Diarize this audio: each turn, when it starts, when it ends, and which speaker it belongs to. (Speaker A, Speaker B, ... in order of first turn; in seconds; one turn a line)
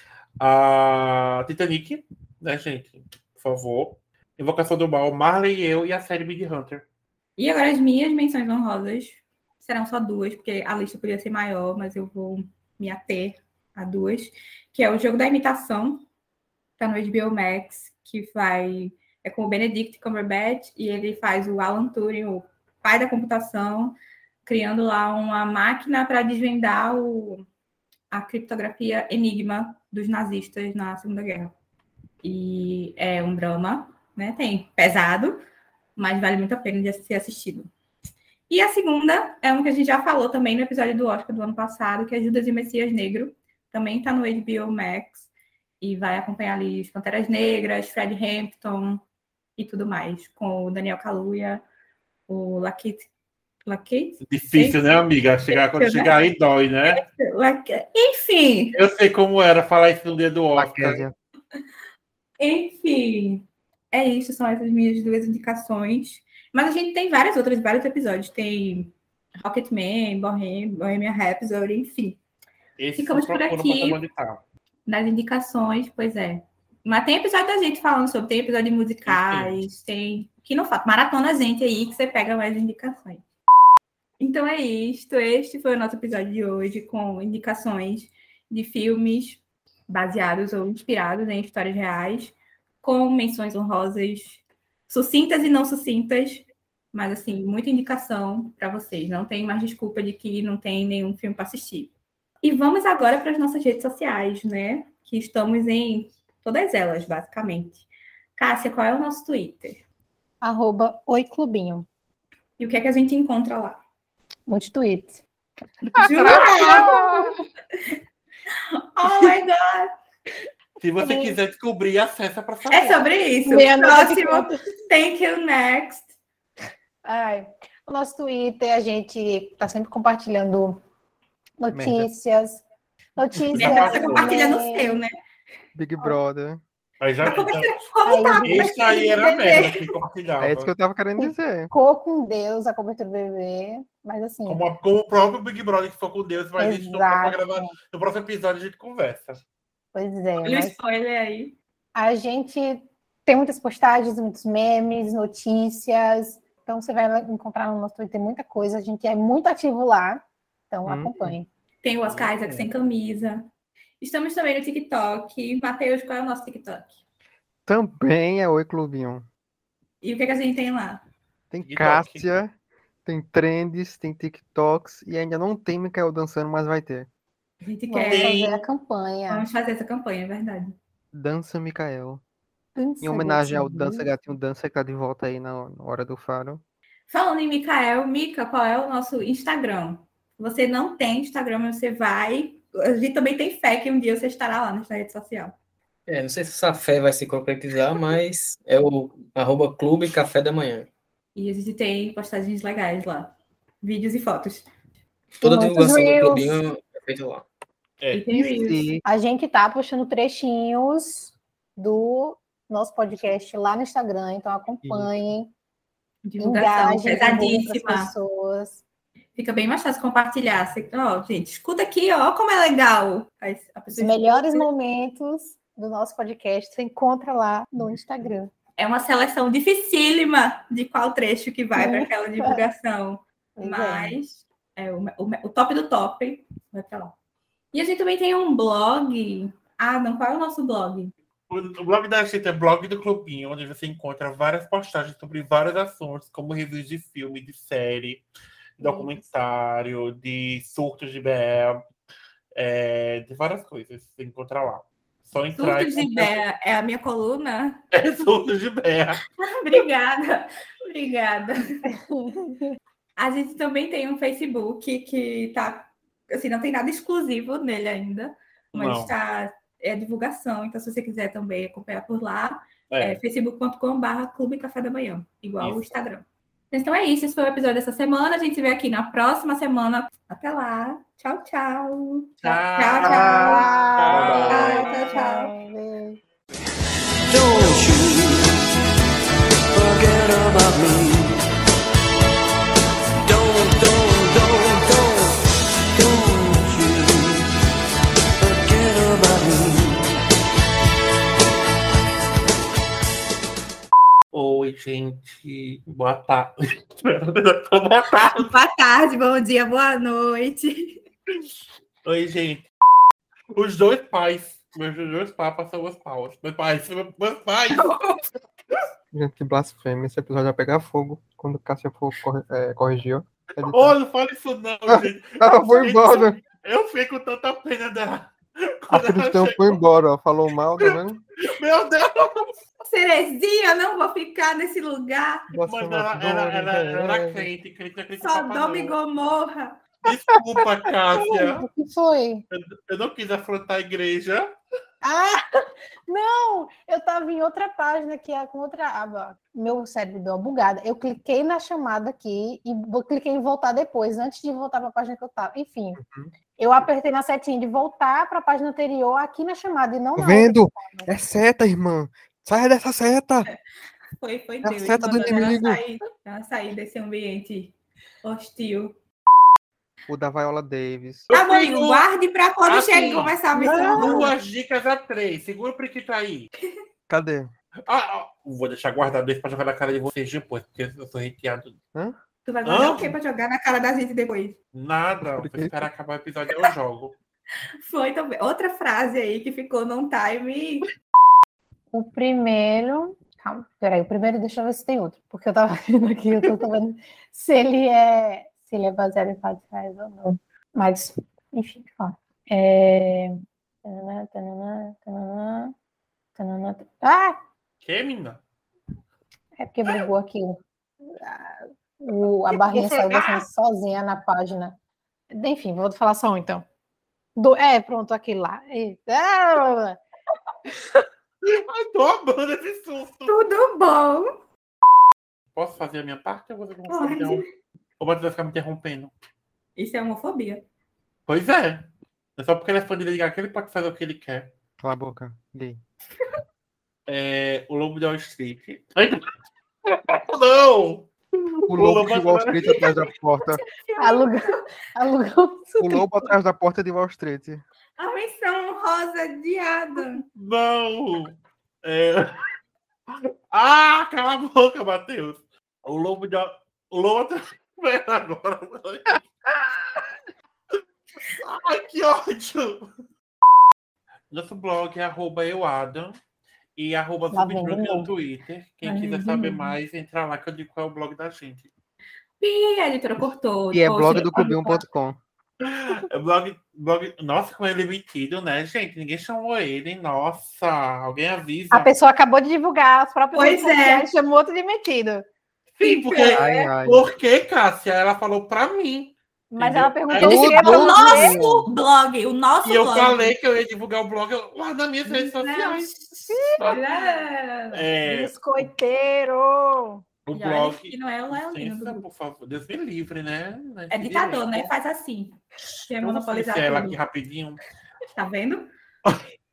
Speaker A: 0.4-6.8
Speaker B: 7.4-16.0
Speaker B: 16.8-27.4
Speaker B: 28.1-31.5
Speaker B: 32.2-35.4
Speaker B: 36.0-37.7
Speaker B: 38.5-45.3
Speaker B: 45.8-49.0
Speaker B: 49.6-51.6
Speaker B: 52.3-53.1
Speaker B: 53.6-56.2
Speaker A: 54.2-57.0
Speaker B: 56.9-58.8
Speaker A: 58.7-61.0
Speaker C: 60.5-61.1
Speaker B: 62.4-72.2
Speaker A: 72.8-74.4
Speaker B: 73.0-74.0
Speaker B: 74.8-83.2
Speaker A: 79.0-79.6
Speaker B: 84.2-109.8
Speaker D: 110.4-111.9
Speaker B: 112.6-113.8
Speaker D: 114.5-115.2
Speaker B: 115.8-117.3
Speaker A: 116.0-116.9
Speaker D: 116.1-117.3
Speaker B: 118.8-119.9
Speaker A: 120.8-123.0
Speaker D: 121.0-121.3
Speaker B: 122.7-126.1
Speaker D: 123.5-124.6
Speaker D: 127.0-130.8
Speaker D: 131.6-132.6
Speaker C: 131.7-132.1
Speaker D: 133.2-135.0
Speaker C: 133.5-134.2
Speaker A: 133.5-134.3
Speaker B: 133.5-135.1
Speaker C: 135.7-136.6
Speaker A: 137.0-137.8
Speaker B: 137.2-139.7
Speaker D: 138.1-139.7
Speaker A: 138.4-140.7
Speaker C: 140.4-141.7
Speaker D: 141.2-144.6
Speaker A: 144.4-149.4
Speaker D: 146.6-147.7
Speaker D: 149.9-150.8
Speaker B: 150.4-151.6
Speaker D: 151.9-161.5
Speaker C: 160.8-161.3
Speaker B: 161.8-163.5
Speaker A: 162.1-162.7
Speaker B: 164.0-167.0
Speaker C: 167.7-169.2
Speaker B: 170.0-171.0
Speaker C: 171.5-177.1
Speaker A: 171.6-172.3
Speaker B: 177.6-178.6
Speaker D: 177.9-179.5
Speaker A: 178.1-178.4
Speaker B: 179.3-180.8
Speaker C: 181.1-182.2
Speaker D: 182.8-184.1
Speaker C: 183.0-186.6
Speaker B: 187.1-195.5
Speaker E: 196.1-200.9
Speaker B: 201.3-204.7
Speaker D: 205.4-206.6
Speaker E: 205.4-207.5
Speaker A: 208.0-208.2
Speaker B: 208.1-208.9
Speaker C: 208.3-209.0
Speaker D: 209.0-215.5
Speaker C: 214.8-215.1
Speaker B: 216.2-218.1
Speaker D: 216.4-218.8
Speaker B: 219.3-224.7
Speaker D: 223.9-228.5
Speaker B: 228.8-237.1
Speaker D: 231.7-232.6
Speaker D: 233.6-234.2
Speaker B: 237.7-241.1
Speaker A: 241.5-248.2
Speaker A: 248.8-251.8
Speaker B: 248.8-249.1
Speaker A: 252.5-256.4
Speaker B: 255.6-257.8
Speaker A: 257.9-259.2
Speaker B: 259.4-261.9
Speaker D: 262.1-262.6
Speaker B: 263.2-283.7
Speaker A: 268.7-269.1
Speaker A: 272.9-273.2
Speaker A: 275.6-276.0
Speaker A: 282.4-285.4
Speaker D: 283.1-286.2
Speaker C: 283.2-283.5
Speaker E: 284.1-284.9
Speaker B: 284.3-285.5
Speaker F: 287.3-288.6
Speaker F: 289.7-291.4
Speaker F: 293.2-295.4
Speaker F: 295.9-297.5
Speaker F: 298.4-300.1
Speaker A: 304.3-308.5
Speaker B: 308.2-311.0
Speaker A: 312.0-312.7
Speaker A: 313.5-318.0
Speaker C: 319.1-323.9
Speaker A: 323.6-329.8
Speaker C: 324.9-326.4
Speaker C: 328.9-331.2
Speaker A: 330.8-332.5
Speaker B: 332.8-335.5
Speaker C: 335.5-337.5
Speaker A: 335.6-338.9
Speaker B: 338.2-339.8
Speaker A: 340.0-341.7
Speaker D: 341.2-342.4
Speaker A: 342.5-344.5
Speaker D: 345.0-356.0
Speaker C: 356.0-356.3
Speaker D: 356.6-361.1
Speaker C: 360.2-363.5
Speaker B: 364.2-368.9
Speaker C: 364.6-365.8
Speaker C: 370.1-371.3
Speaker A: 371.3-372.1
Speaker B: 371.3-374.3
Speaker A: 372.6-376.5
Speaker C: 377.1-377.5
Speaker A: 377.9-381.8
Speaker B: 382.4-384.6
Speaker A: 382.6-383.2
Speaker A: 384.7-387.2
Speaker C: 385.2-385.9
Speaker B: 387.8-390.9
Speaker D: 391.9-405.7
Speaker D: 406.4-407.4
Speaker A: 407.8-408.4
Speaker D: 409.6-414.8
Speaker A: 412.6-413.4
Speaker D: 415.3-416.6
Speaker D: 417.4-420.0
Speaker A: 421.4-423.4
Speaker B: 423.2-424.4
Speaker A: 425.5-427.4
Speaker B: 426.9-427.5
Speaker A: 428.0-429.1
Speaker B: 429.8-430.6
Speaker A: 431.3-434.5
Speaker C: 434.8-435.8
Speaker A: 437.1-439.3
Speaker A: 439.9-441.1
Speaker C: 441.7-443.6
Speaker A: 441.7-442.9
Speaker B: 443.6-444.6
Speaker D: 444.0-446.3
Speaker C: 445.8-447.6
Speaker B: 448.0-450.2
Speaker A: 450.3-452.4
Speaker A: 453.2-459.6
Speaker A: 461.2-462.9
Speaker A: 464.3-466.2
Speaker A: 466.8-471.7
Speaker D: 467.3-468.1
Speaker B: 468.8-469.7
Speaker B: 472.4-474.8
Speaker C: 473.7-475.2
Speaker A: 475.6-481.9
Speaker D: 481.7-485.2
Speaker B: 483.3-484.1
Speaker A: 485.8-490.9
Speaker B: 485.8-486.7
Speaker C: 486.3-487.0
Speaker D: 489.5-491.5
Speaker C: 490.2-491.6
Speaker B: 490.2-493.3
Speaker A: 492.6-497.2
Speaker B: 495.1-495.9
Speaker D: 496.3-496.8
Speaker B: 496.6-497.9
Speaker A: 497.7-498.6
Speaker D: 498.0-500.0
Speaker A: 500.2-504.7
Speaker B: 500.3-502.0
Speaker B: 503.9-507.0
Speaker A: 506.0-507.6
Speaker B: 508.1-508.7